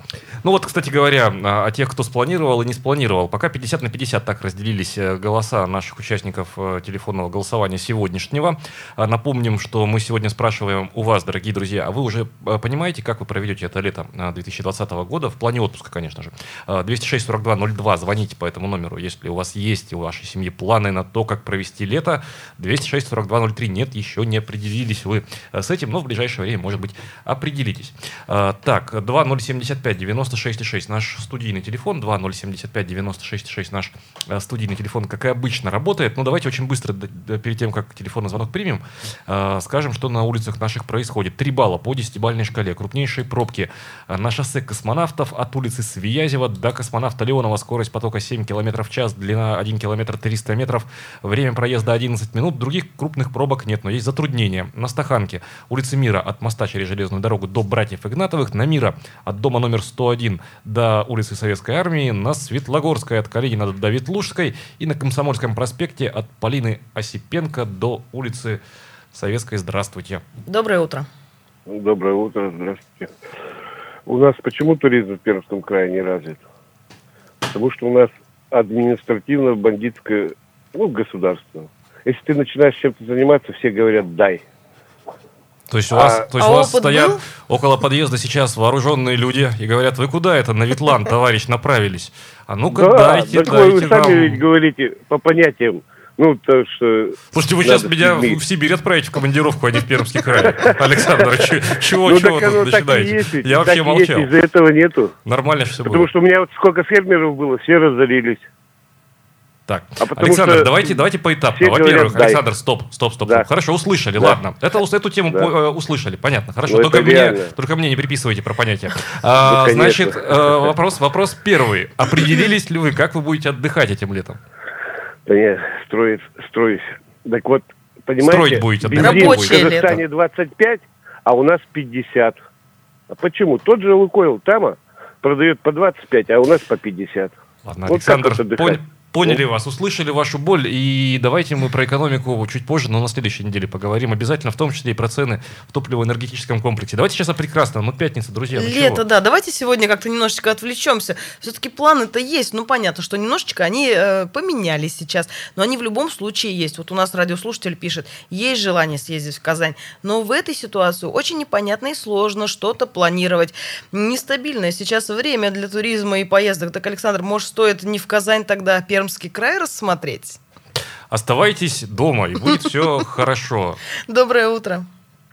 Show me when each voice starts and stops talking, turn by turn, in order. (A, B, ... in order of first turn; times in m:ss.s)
0:00.4-1:08.6 A
1:09.1-1:10.2 A
1:10.5-1:11.1 B
1:11.7-1:13.1 C
1:14.1-1:16.4 C
1:17.5-1:24.4 C
1:25.7-1:34.4 A
1:25.9-1:26.2 C
1:26.4-1:27.2 B
1:32.7-1:38.4 C
1:37.3-1:44.3 A
1:40.4-1:45.1 C
1:45.3-1:46.1 A
1:45.8-1:48.5 C
1:49.7-2:04.4 A
1:50.0-1:51.0 C
1:51.5-1:52.4 C
1:56.7-1:57.5 C
1:59.4-2:00.7 C
2:05.3-2:12.4 C
2:08.2-2:10.0 A
2:09.0-2:09.9 B
2:13.1-2:19.4 C
2:17.6-2:29.0 A
2:28.6-2:50.4 B
2:51.1-2:53.8 A
2:54.1-2:54.9 B